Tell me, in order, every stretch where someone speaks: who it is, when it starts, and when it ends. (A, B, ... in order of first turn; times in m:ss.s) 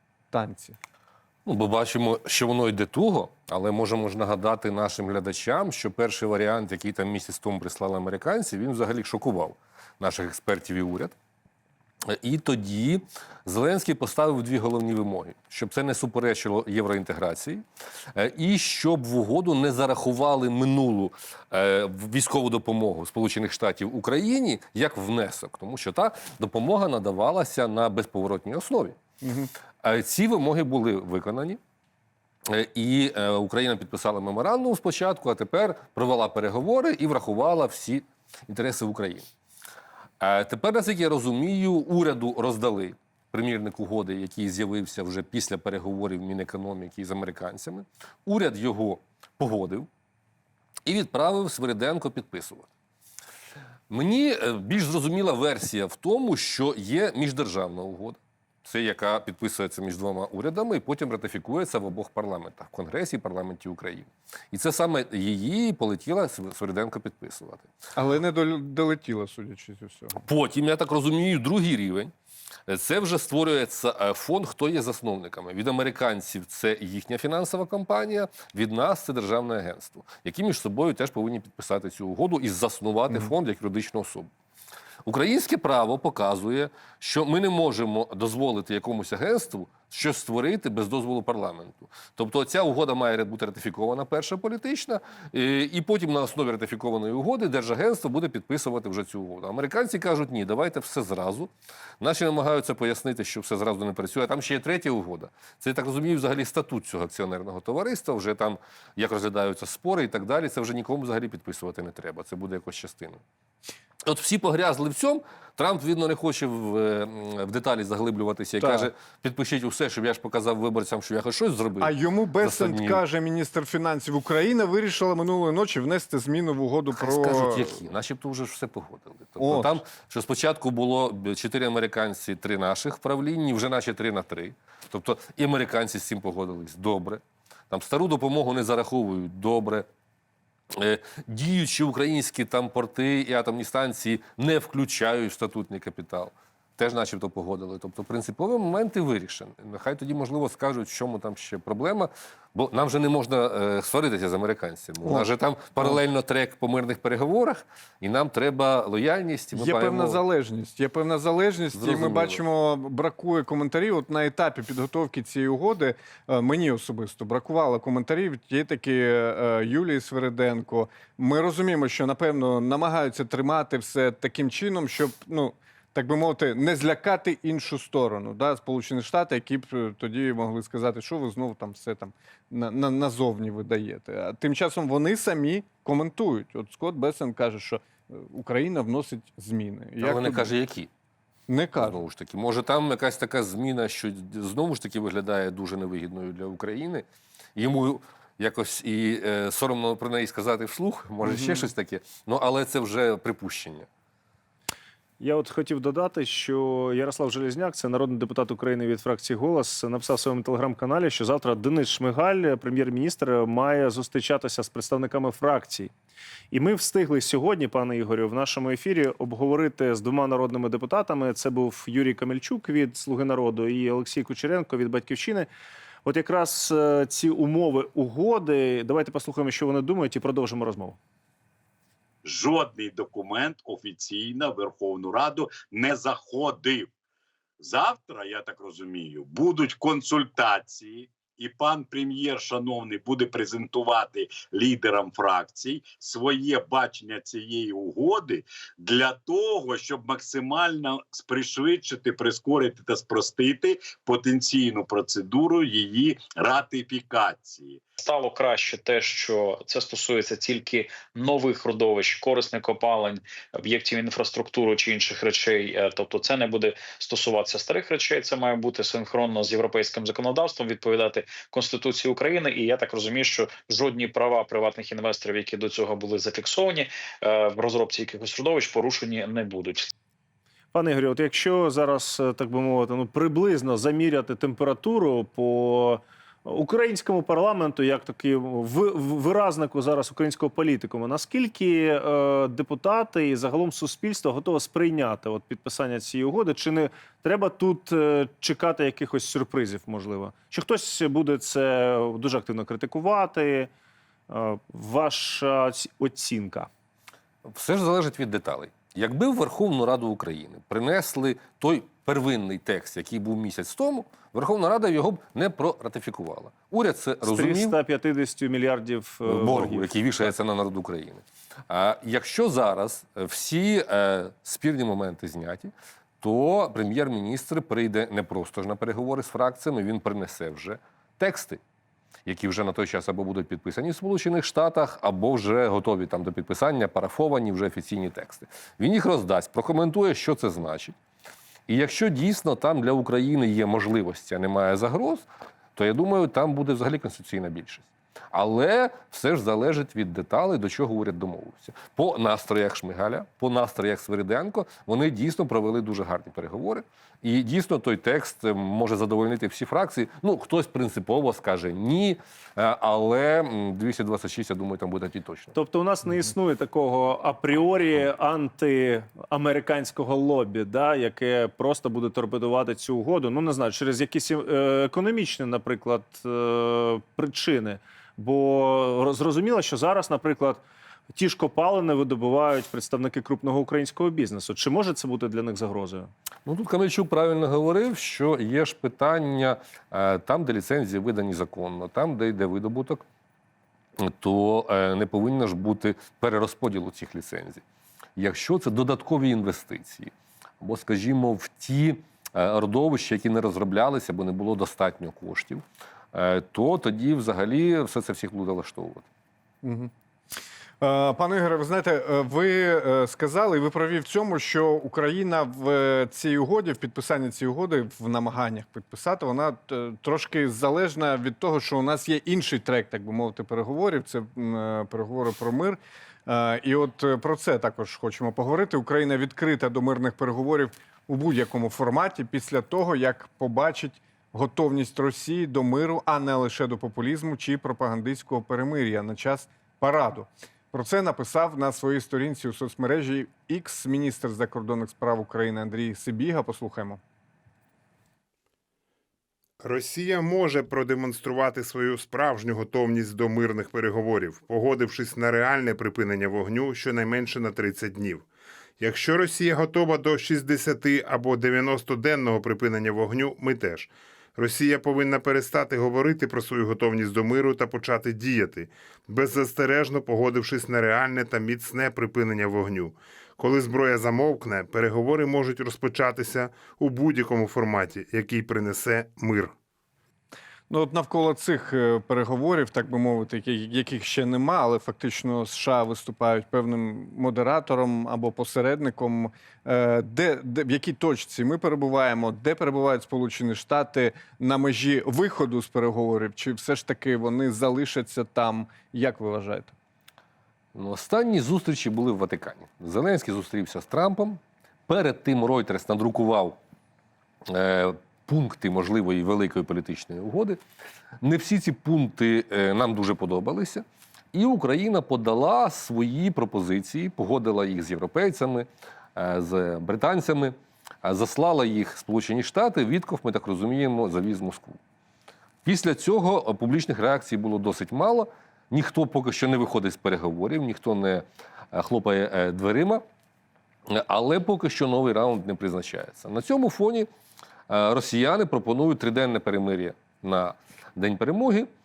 0:00.3-0:00.8 A
0:01.5-0:11.1 B
0:12.1-0:17.6 B
0:18.2-0:29.0 B
0:29.2-0:29.5 A
0:29.8-0:31.6 B
0:32.5-0:39.3 B
0:40.2-0:49.9 B
0:50.9-0:52.7 B
0:53.9-1:07.7 B
1:08.0-1:10.2 A
1:10.2-1:12.1 B
1:12.7-1:24.3 B
1:25.1-1:53.2 B
1:54.1-2:03.0 B
1:58.6-1:58.9 A
2:01.8-2:07.8 A
2:06.9-2:19.9 B
2:09.4-2:09.8 A
2:20.8-2:40.2 B
2:35.0-2:36.0 A
2:39.5-3:10.5 A
2:41.7-2:42.4 B
3:10.0-3:10.9 B
3:11.5-3:12.0 A
3:11.8-3:23.9 B
3:21.2-3:21.7 A
3:25.2-3:35.9 C
3:36.5-3:45.5 C
3:46.0-3:51.0 C
3:52.3-3:56.9 D
3:57.6-4:17.8 D
4:18.0-4:39.9 E
4:40.7-5:03.7 C
5:04.3-5:06.7 C
5:07.5-5:17.8 B
5:17.2-5:19.9 C
5:19.2-5:31.6 B
5:32.2-5:41.0 B
5:41.7-6:05.5 B
6:05.5-6:20.6 C
6:21.1-6:26.1 C
6:26.4-6:33.0 B
6:34.0-6:37.6 B
6:38.2-6:49.0 B
6:49.6-6:49.9 A
6:50.8-7:27.0 A
7:29.6-7:38.3 F
7:38.8-7:59.5 F
8:00.7-8:19.7 A
8:20.7-8:26.6 B
8:27.5-8:30.6 B
8:31.2-8:44.8 B
8:45.6-8:53.0 B
8:53.9-8:57.1 B
8:57.7-9:01.7 B